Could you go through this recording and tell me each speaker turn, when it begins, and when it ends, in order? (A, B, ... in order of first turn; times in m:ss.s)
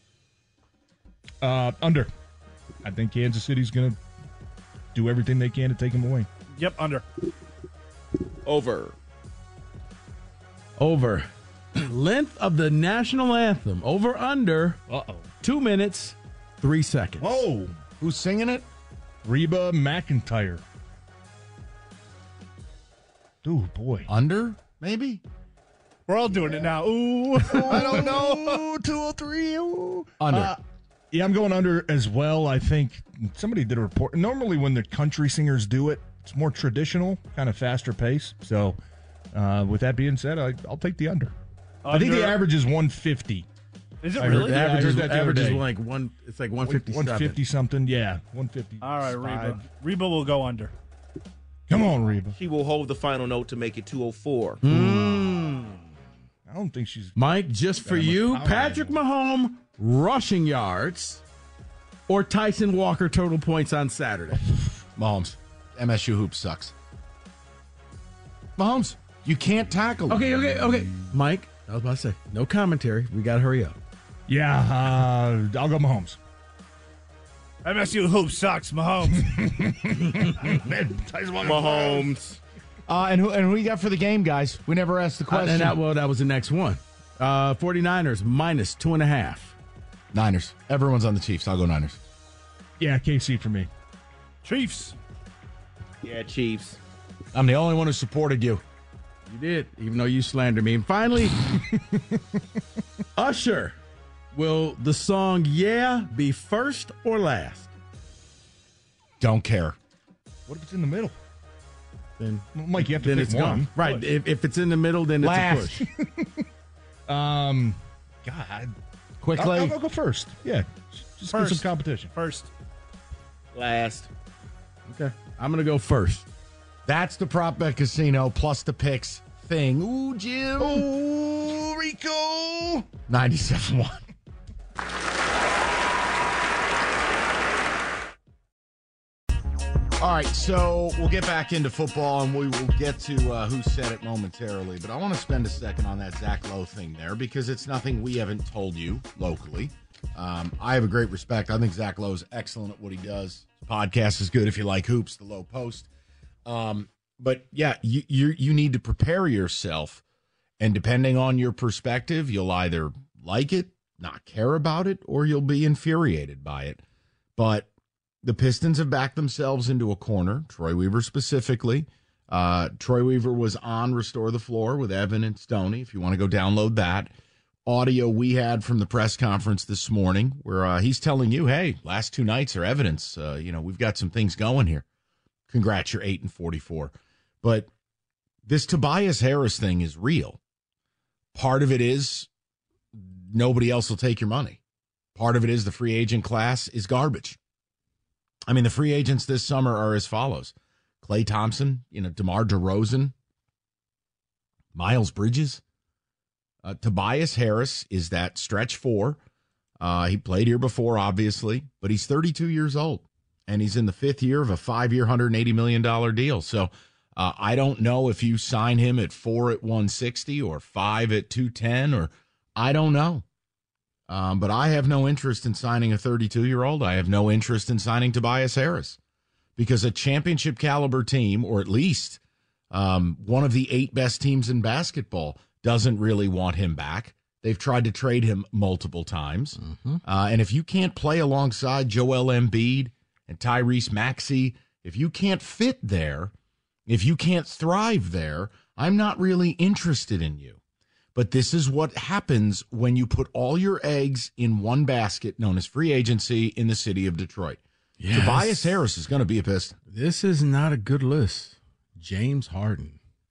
0:01.4-0:02.1 A
0:02.8-0:04.0 A
0:05.0-0:06.3 A
0:06.6-0:07.0 B
0:08.4-0:09.0 C
0:10.8-0:14.8 D
0:14.9-0:15.3 A
0:15.4-0:17.3 D
0:17.2-0:17.8 A
0:18.0-0:18.6 E
0:19.2-0:20.6 A
0:23.4-0:24.1 A
0:24.1-0:25.2 E
0:26.1-0:28.6 B
0:27.4-0:30.6 A
0:27.7-0:28.2 E
0:30.2-0:30.6 E
0:31.1-0:38.8 A
0:39.3-0:41.3 A
0:41.8-0:42.4 B
0:41.9-0:43.5 A
0:44.0-0:44.5 B
0:44.2-0:45.6 A
0:44.2-0:47.4 D
0:46.7-0:49.6 A
0:48.8-0:50.7 B
0:51.7-0:52.4 A
0:52.4-0:54.6 C
0:54.6-0:55.8 D
0:54.7-0:55.0 A
0:56.5-0:57.2 A
0:57.2-1:01.2 D
0:57.8-0:59.0 A
1:02.1-1:04.4 D
1:05.0-1:06.7 E
1:08.6-1:10.3 E
1:10.1-1:13.8 D
1:14.3-1:16.2 A
1:17.6-1:19.7 B
1:19.1-1:22.1 A
1:21.4-1:22.4 C
1:22.9-1:25.8 E
1:25.3-1:29.6 D
1:30.1-1:32.0 E
1:32.8-1:33.7 A
1:34.4-1:35.0 B
1:36.0-1:36.8 C
1:37.3-1:38.6 E
1:39.3-1:41.4 D
1:41.7-1:42.2 A
1:43.2-1:43.8 D
1:44.3-1:47.7 D
1:49.2-1:49.8 E
1:50.5-1:51.2 A
1:52.2-1:55.8 D
1:52.6-1:53.7 A
1:53.8-1:54.1 B
1:55.2-1:55.8 E
1:55.8-1:56.4 A
1:57.1-1:58.7 A
1:59.2-1:59.8 E
1:59.4-2:02.1 A
2:01.3-2:02.5 B
2:03.5-2:04.1 C
2:04.9-2:06.3 D
2:06.9-2:10.9 E
2:10.6-2:12.9 A
2:13.1-2:14.0 E
2:20.0-2:35.9 E
2:36.5-2:40.0 E
2:40.6-2:46.8 E
2:47.4-2:47.7 E
2:48.2-2:57.1 E
2:57.7-3:04.8 E
3:05.5-3:07.7 E
3:08.5-3:10.4 E
3:11.3-3:12.3 E
3:12.9-3:14.6 E
3:15.2-3:17.4 E
3:18.5-3:23.1 E
3:24.8-3:25.6 E
3:26.6-3:29.2 E
3:29.8-3:43.2 E
3:44.1-3:49.0 E
3:49.6-3:52.2 E
3:52.7-4:06.3 E
3:59.6-4:00.0 D
4:06.9-4:10.6 E
4:11.2-4:19.8 E
4:18.0-4:18.8 D
4:19.9-4:23.0 D